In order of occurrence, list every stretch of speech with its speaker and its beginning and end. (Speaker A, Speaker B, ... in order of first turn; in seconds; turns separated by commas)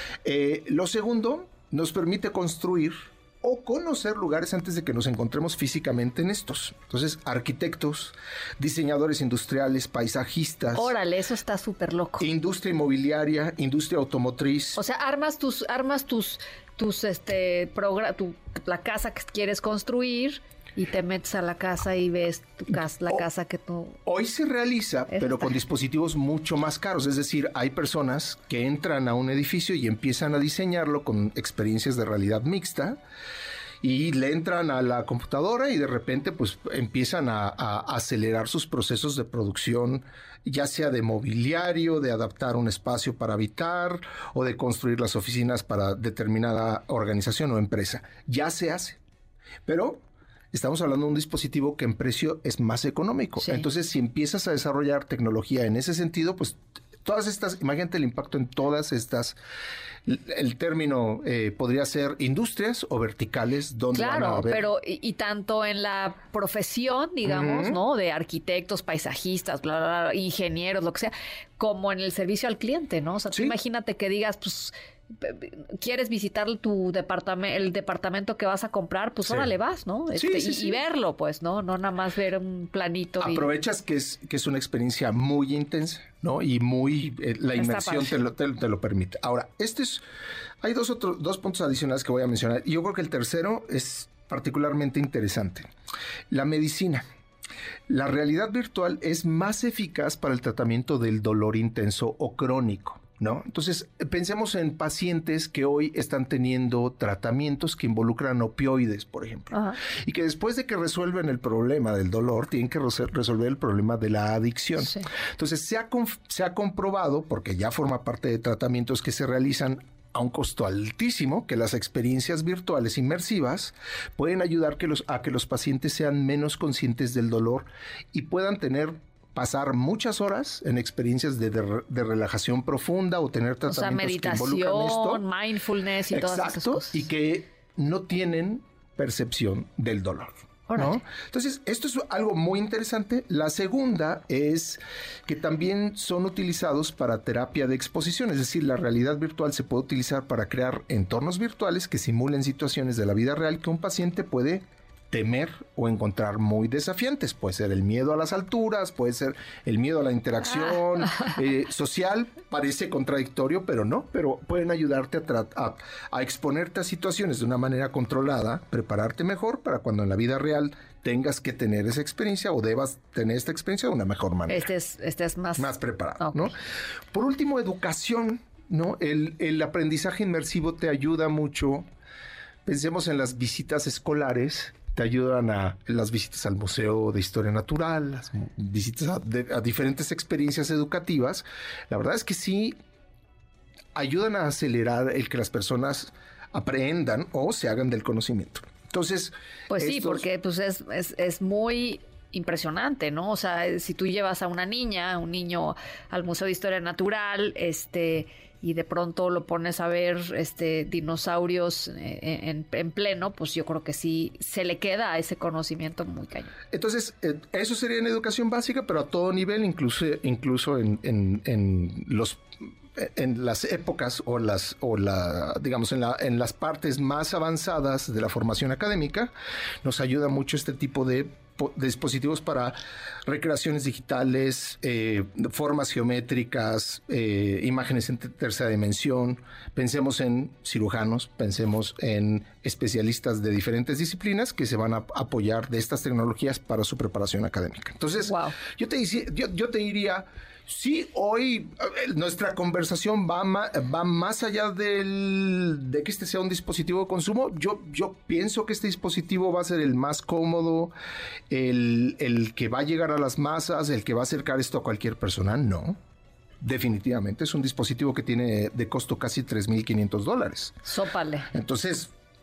Speaker A: 0.2-10.9, Speaker B: 10.7-12.3, Speaker A: 12.2-14.8, Speaker B: 14.8-24.0, Speaker A: 22.7-23.2, Speaker A: 24.1-33.0, Speaker B: 25.1-25.6, Speaker A: 33.8-49.0, Speaker A: 49.7-50.0, Speaker A: 50.5-59.4, Speaker B: 53.4-53.7, Speaker A: 60.0-64.7, Speaker B: 63.9-83.5, Speaker A: 67.2-67.8, Speaker A: 73.3-73.6, Speaker A: 80.2-80.8, Speaker A: 83.2-90.0, Speaker B: 87.6-88.2, Speaker A: 90.6-95.7, Speaker A: 96.3-97.1, Speaker A: 97.9-135.2, Speaker B: 109.5-109.8, Speaker B: 114.8-115.1, Speaker B: 133.7-137.1, Speaker A: 136.1-174.7, Speaker B: 140.7-141.0, Speaker B: 160.6-161.3, Speaker B: 174.5-176.5, Speaker A: 175.6-176.6, Speaker A: 177.1-181.9, Speaker A: 182.7-192.8, Speaker A: 193.9-200.3, Speaker B: 199.7-216.6, Speaker A: 216.7-222.4, Speaker A: 223.0-229.3, Speaker A: 229.8-260.9, Speaker B: 248.3-248.6, Speaker A: 261.5-266.0, Speaker A: 266.6-270.8, Speaker B: 270.9-271.5, Speaker A: 271.5-272.1